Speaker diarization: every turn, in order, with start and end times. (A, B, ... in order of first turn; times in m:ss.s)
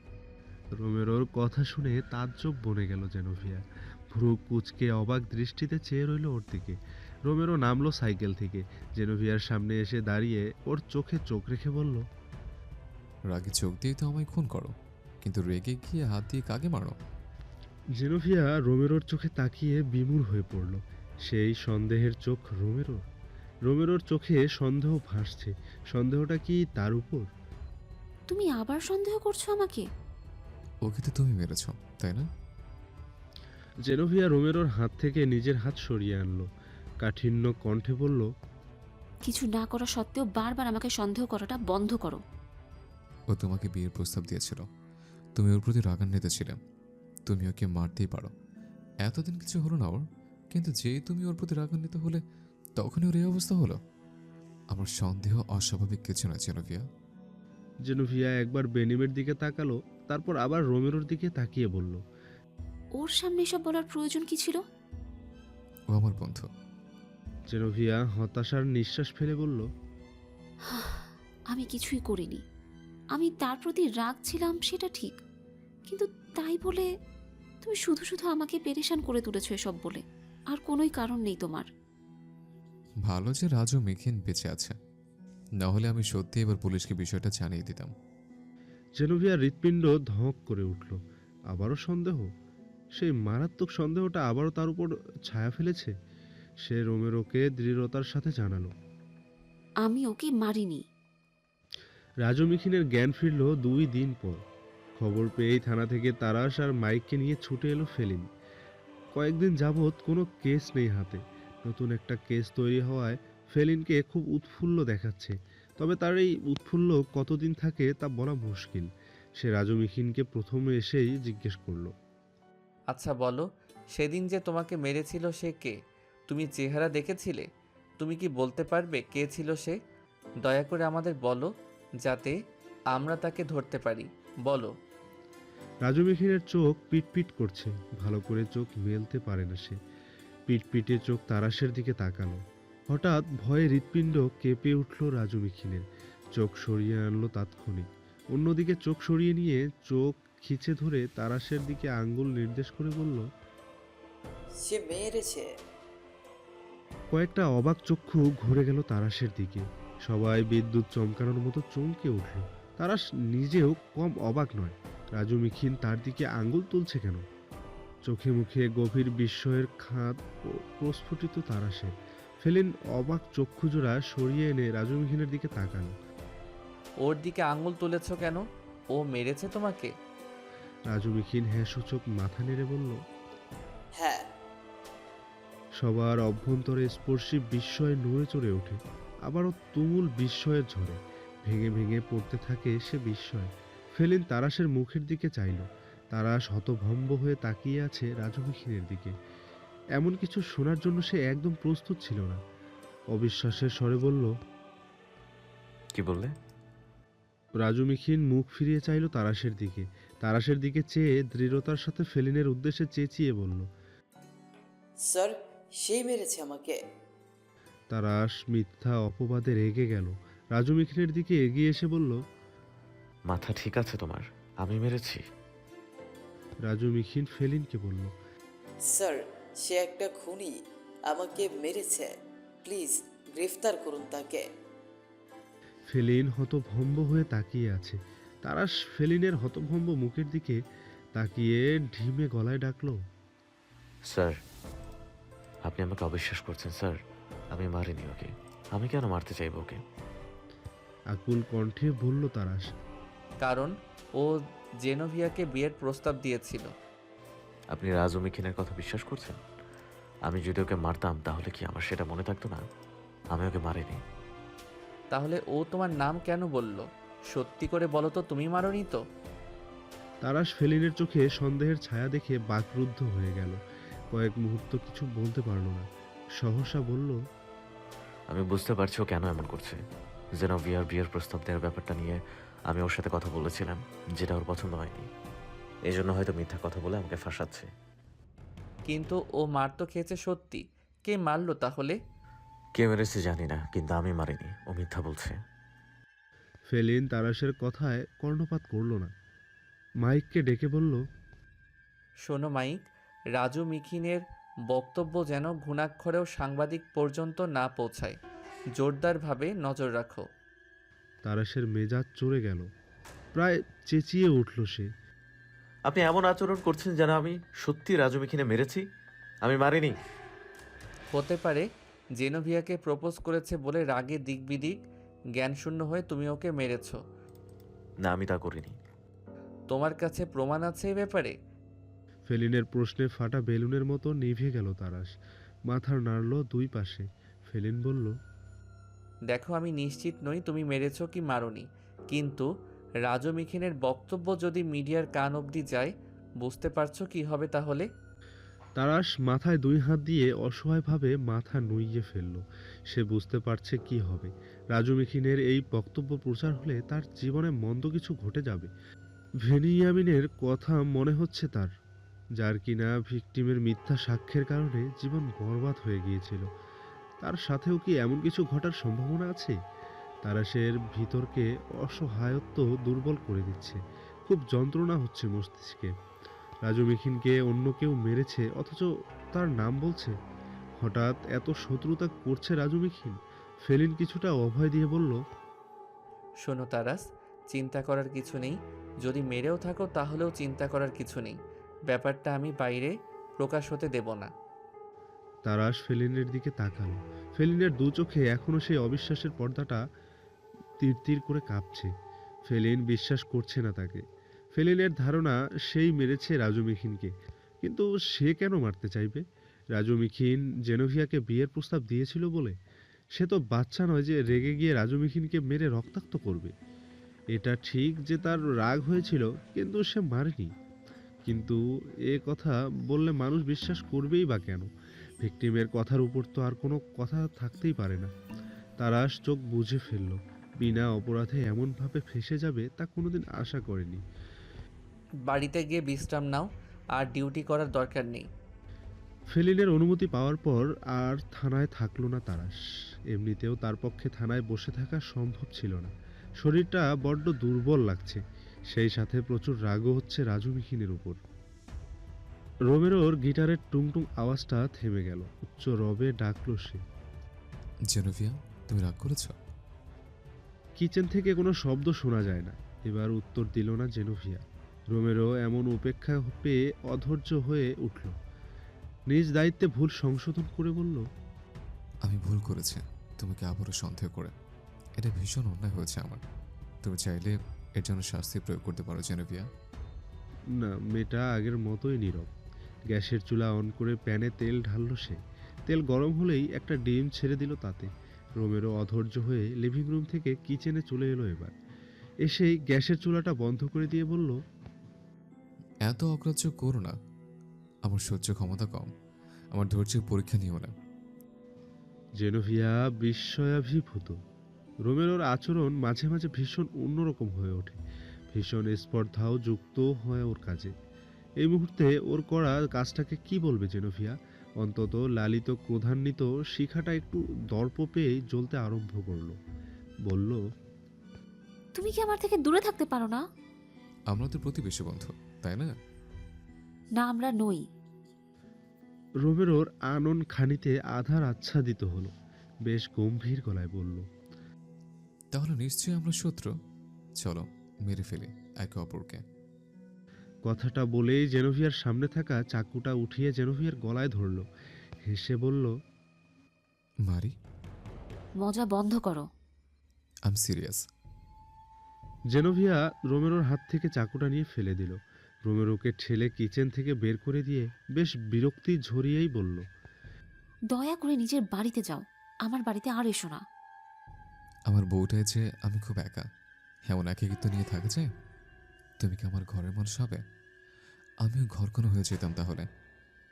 0:00.8-0:12.0 A
0:13.3-0:17.0 B
0:18.0-0:23.0 A
0:23.7-0:27.2 A
0:28.3-0:29.8 C
0:30.8-0:32.2 B
0:33.9-0:36.4 A
0:37.0-0:38.2 A
0:39.2-0:42.2 C
0:43.3-0:44.6 B
0:45.4-0:46.6 B
0:47.3-0:48.3 B
0:49.0-0:52.2 B
0:52.8-0:53.8 B
0:54.7-0:56.8 B
0:57.8-1:02.0 A
1:03.0-1:04.6 C
1:05.9-1:06.5 B
1:07.5-1:09.6 A
1:10.7-1:12.4 C
1:13.2-1:15.2 C
1:15.9-1:16.9 C
1:17.6-1:20.0 C
1:20.5-1:21.6 C
1:23.1-1:24.7 B
1:25.6-1:27.9 B
1:29.0-1:31.0 A
1:31.5-1:32.3 A
1:33.0-1:35.9 A
1:36.6-1:38.7 A
1:39.8-1:40.8 C
1:42.2-1:44.4 A
1:45.0-1:48.2 A
1:49.1-2:01.9 A
2:02.9-2:07.5 D
2:08.0-2:09.8 D
2:10.4-2:11.5 D
2:12.0-2:12.4 D
2:12.9-2:14.7 D
2:15.8-2:19.8 A
2:20.5-2:22.4 A
2:22.9-2:25.8 A
2:26.4-2:33.2 A
2:34.7-2:35.4 E
2:37.1-2:47.2 A
2:48.0-2:50.1 A
2:50.8-2:51.9 A
2:52.4-2:55.9 A
2:57.0-2:59.9 D
3:00.9-3:03.0 A
3:05.8-3:19.1 A
3:20.0-3:22.4 A
3:23.1-3:24.3 A
3:26.0-3:26.3 F
3:27.6-3:33.6 A
3:35.9-3:36.7 E
3:37.9-3:42.2 A
3:43.3-3:45.2 F
3:46.6-3:48.1 A
3:49.7-3:50.5 E
3:51.1-3:52.1 E
3:52.6-3:54.4 E
3:55.9-4:00.6 A
4:01.2-4:03.0 A
4:04.1-4:04.3 F
4:05.6-4:07.0 F
4:07.5-4:09.8 F
4:11.1-4:12.7 A
4:13.4-4:16.7 D
4:17.7-4:19.4 F
4:20.3-4:22.6 F
4:23.3-4:24.0 F
4:25.1-4:29.0 D
4:30.2-4:33.6 A
4:34.1-4:35.8 A
4:36.4-4:37.2 A
4:38.3-4:39.8 F
4:40.4-4:45.0 F
4:45.9-4:47.7 F
4:48.9-4:52.0 D
4:52.8-4:55.4 F
4:56.7-4:59.1 A
5:00.0-5:01.0 A
5:02.2-5:02.8 D
5:03.3-5:08.2 D
5:08.8-5:10.3 D
5:11.2-5:12.6 A
5:13.4-5:14.9 A
5:15.9-5:18.8 F
5:19.4-5:19.9 F
5:21.1-5:21.6 D
5:22.2-5:24.8 D
5:25.4-5:27.0 D
5:28.0-5:28.7 F
5:29.7-5:31.4 D
5:32.3-5:35.1 A
5:35.7-5:38.1 A
5:39.3-5:42.5 D
5:43.0-5:47.9 D
5:48.8-5:58.7 A
5:59.4-6:01.7 A
6:02.4-6:06.5 A
6:07.2-6:09.5 A
6:10.2-6:15.9 A
6:16.6-6:20.1 A
6:20.8-6:25.2 A
6:26.4-6:34.3 D
6:35.4-6:39.8 A
6:40.8-6:41.9 A
6:42.5-6:44.0 A
6:44.5-6:49.2 A
6:49.8-6:52.5 A
6:53.2-6:56.5 A
6:57.4-7:00.5 A
7:01.2-7:04.7 A
7:05.2-7:08.1 A
7:08.8-7:14.0 A
7:15.3-7:18.3 D
7:19.3-7:22.5 A
7:23.1-7:31.2 A
7:32.7-7:36.8 A
7:37.9-7:39.4 B
7:40.8-7:48.1 A
7:49.1-7:51.0 A
7:52.0-7:54.3 B
7:55.0-7:56.2 B
7:56.8-7:59.4 B
8:00.6-8:02.3 A
8:02.9-8:11.5 A
8:12.2-8:14.4 A
8:15.8-8:16.9 B
8:17.9-8:18.9 B
8:19.5-8:20.7 B
8:22.2-8:24.1 A
8:24.8-8:27.8 A
8:28.3-8:30.7 A
8:31.4-8:39.4 A
8:40.1-8:40.4 A
8:41.7-8:43.2 C
8:44.1-8:45.7 B
8:47.0-8:47.6 C
8:49.2-8:52.1 A
8:52.6-8:54.0 A
8:55.3-8:56.5 B
8:57.2-8:59.2 B
9:00.4-9:04.4 A
9:05.1-9:05.7 A
9:07.0-9:07.3 B
9:08.4-9:09.2 C
9:10.2-9:10.8 B
9:12.3-9:19.6 A
9:20.7-9:23.4 C
9:24.7-9:26.2 B
9:26.9-9:28.1 B
9:29.0-9:30.2 B
9:31.2-9:32.6 B